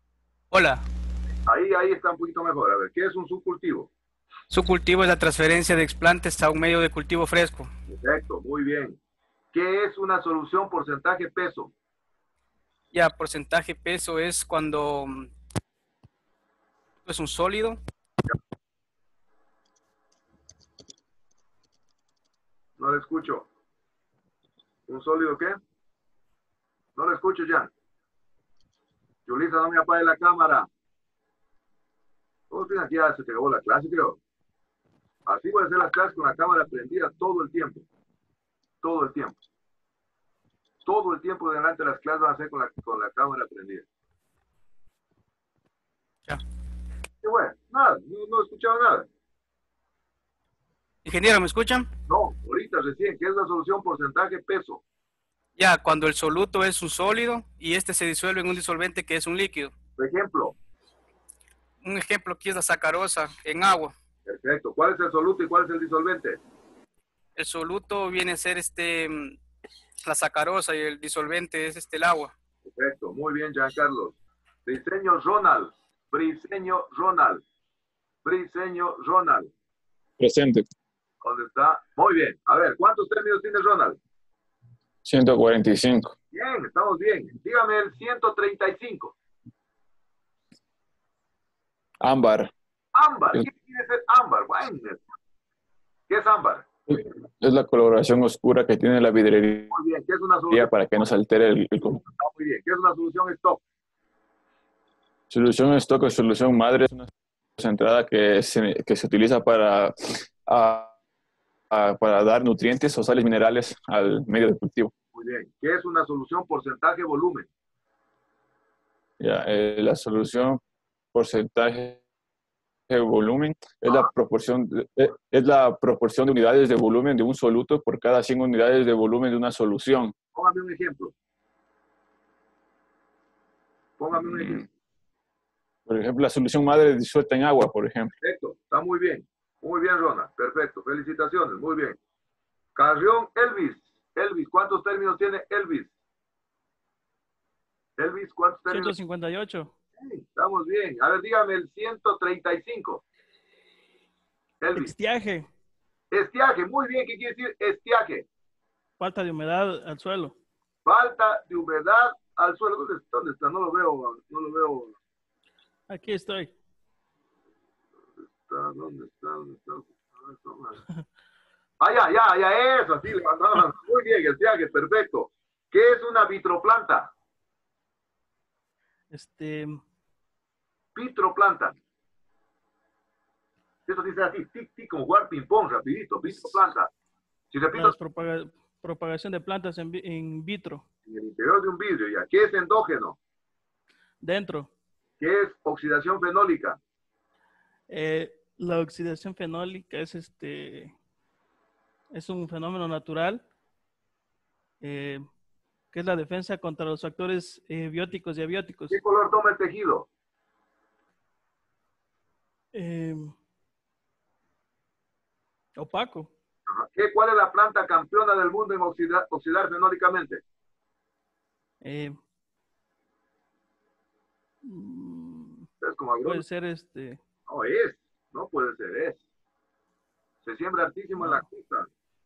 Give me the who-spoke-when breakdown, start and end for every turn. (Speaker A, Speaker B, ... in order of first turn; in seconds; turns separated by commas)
Speaker A: 0.5-0.8, Speaker B: 1.5-3.9, Speaker A: 4.5-7.7, Speaker B: 7.9-9.0, Speaker B: 9.5-11.7, Speaker A: 12.9-15.3, Speaker A: 17.1-17.8, Speaker B: 22.8-23.5, Speaker B: 24.9-25.6, Speaker B: 27.0-27.7, Speaker B: 29.3-30.7, Speaker B: 32.5-34.2, Speaker B: 35.3-37.9, Speaker B: 38.8-39.4, Speaker B: 40.8-43.9, Speaker B: 47.2-49.1, Speaker A: 51.0-51.9, Speaker B: 52.1-54.8, Speaker A: 55.6-59.7, Speaker B: 60.0-60.5, Speaker A: 61.8-63.9, Speaker B: 64.3-66.4, Speaker A: 67.4-69.4, Speaker A: 70.0-72.3, Speaker B: 72.7-74.2, Speaker B: 74.7-77.4, Speaker B: 78.2-79.5, Speaker C: 80.2-80.7, Speaker B: 81.2-84.0, Speaker C: 85.0-86.1, Speaker B: 86.3-89.2, Speaker C: 92.0-92.5, Speaker B: 93.0-95.0, Speaker B: 96.1-96.7, Speaker C: 96.9-99.8, Speaker B: 99.7-100.7, Speaker C: 100.5-102.0, Speaker B: 102.0-103.6, Speaker C: 105.3-109.9, Speaker C: 110.5-111.0, Speaker C: 111.7-114.9, Speaker B: 115.1-117.5, Speaker C: 119.2-120.6, Speaker C: 121.1-122.0, Speaker C: 122.9-130.1, Speaker B: 130.3-131.1, Speaker B: 134.0-134.7, Speaker C: 135.9-138.1, Speaker B: 138.2-142.0, Speaker B: 142.8-145.9, Speaker B: 148.0-148.9, Speaker D: 148.7-149.7, Speaker B: 150.0-153.0, Speaker B: 154.6-154.9, Speaker D: 154.8-155.5, Speaker B: 156.1-158.3, Speaker D: 159.0-160.3, Speaker B: 160.8-165.0, Speaker D: 165.9-166.5, Speaker B: 168.4-170.8, Speaker B: 171.8-177.1, Speaker D: 179.1-179.8, Speaker B: 180.9-181.8, Speaker B: 183.9-186.9, Speaker B: 187.5-187.9, Speaker D: 187.8-190.8, Speaker B: 191.1-193.2, Speaker D: 194.2-194.7, Speaker B: 195.2-196.8, Speaker D: 197.9-200.9, Speaker D: 202.1-203.4, Speaker D: 204.8-205.3, Speaker D: 205.9-209.0, Speaker B: 208.9-210.1, Speaker D: 212.7-213.3, Speaker D: 215.8-216.3, Speaker B: 216.7-220.4, Speaker D: 221.8-222.2, Speaker D: 224.7-225.7, Speaker B: 225.8-226.4, Speaker D: 226.2-227.2, Speaker B: 227.5-229.2, Speaker B: 230.4-231.9